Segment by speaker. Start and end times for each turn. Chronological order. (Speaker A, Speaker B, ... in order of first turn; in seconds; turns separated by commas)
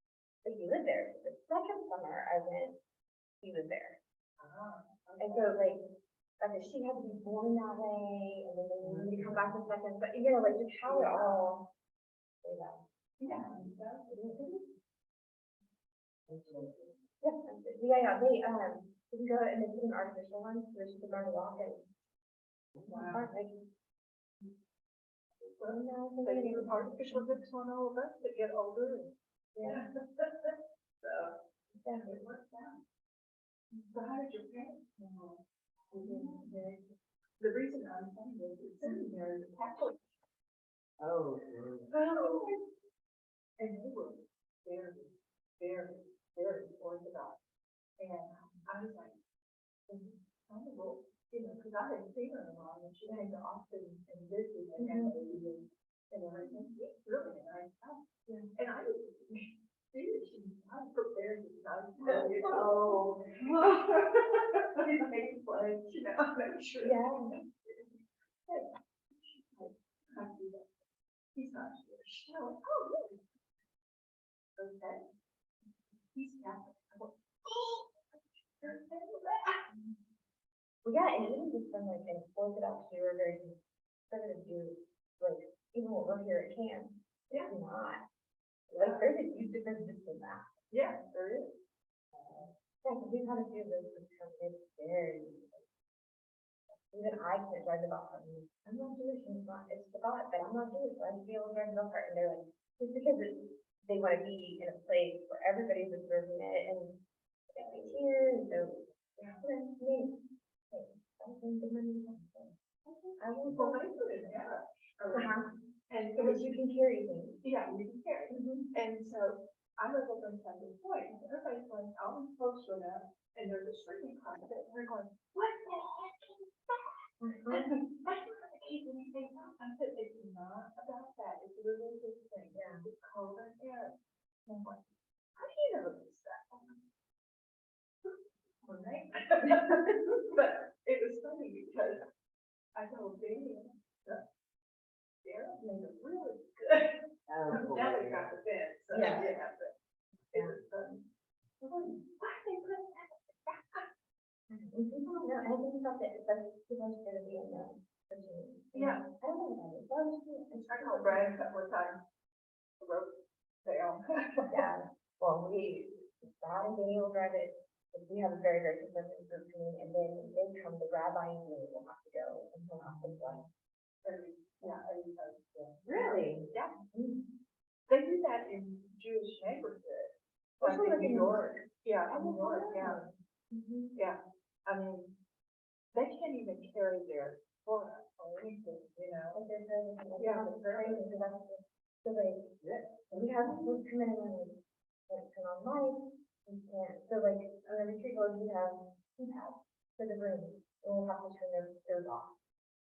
Speaker A: 0.4-2.8, Speaker A: 3.4-4.0, Speaker B: 4.4-5.6, Speaker A: 5.2-5.8, Speaker A: 6.4-11.7, Speaker C: 8.8-9.6, Speaker B: 10.8-11.4, Speaker A: 12.4-12.8, Speaker B: 13.2-14.5, Speaker C: 13.3-13.7, Speaker A: 14.1-14.6, Speaker C: 16.3-16.7, Speaker A: 17.2-21.9, Speaker C: 22.7-23.2, Speaker B: 22.9-23.3, Speaker A: 23.1-23.6, Speaker B: 25.4-31.4, Speaker A: 25.7-27.4, Speaker A: 31.8-32.2, Speaker B: 32.0-32.8, Speaker B: 33.9-36.8, Speaker A: 36.0-36.5, Speaker B: 37.4-40.0, Speaker C: 41.0-41.9, Speaker A: 41.9-42.6, Speaker B: 42.1-42.5, Speaker B: 43.6-47.4, Speaker B: 48.0-49.2, Speaker B: 49.9-64.2, Speaker A: 54.8-55.1, Speaker A: 56.4-56.7, Speaker A: 62.1-63.9, Speaker B: 64.8-67.1, Speaker A: 66.8-67.3, Speaker B: 67.6-68.7, Speaker B: 69.3-70.7, Speaker B: 71.3-73.2, Speaker B: 74.6-75.0, Speaker B: 76.1-79.6, Speaker A: 80.8-88.0, Speaker A: 88.7-90.5, Speaker B: 88.7-89.1, Speaker B: 90.7-91.5, Speaker A: 92.3-95.6, Speaker A: 96.9-108.9, Speaker B: 109.2-109.5, Speaker A: 109.4-110.2, Speaker A: 110.7-112.5, Speaker B: 112.9-116.6, Speaker A: 113.2-113.9, Speaker A: 115.1-115.5, Speaker A: 116.2-117.4, Speaker B: 117.4-127.0, Speaker A: 118.3-118.7, Speaker A: 127.2-127.8, Speaker B: 127.5-133.9, Speaker A: 132.5-132.9, Speaker B: 134.4-134.8, Speaker B: 135.3-136.8, Speaker B: 138.6-142.0, Speaker B: 142.7-144.2, Speaker B: 145.2-149.7, Speaker C: 147.3-148.3, Speaker A: 148.9-149.3, Speaker B: 150.3-151.0, Speaker B: 151.6-153.9, Speaker A: 154.5-161.4, Speaker B: 158.7-159.1, Speaker B: 160.7-162.0, Speaker B: 162.8-164.7, Speaker A: 164.5-173.4, Speaker C: 172.8-173.5, Speaker B: 174.0-176.8, Speaker A: 175.9-177.2, Speaker B: 177.9-183.1, Speaker A: 180.6-184.0, Speaker B: 183.9-185.2, Speaker B: 185.9-189.4, Speaker A: 189.3-192.5, Speaker B: 190.2-191.1, Speaker C: 192.6-193.8, Speaker A: 193.1-202.3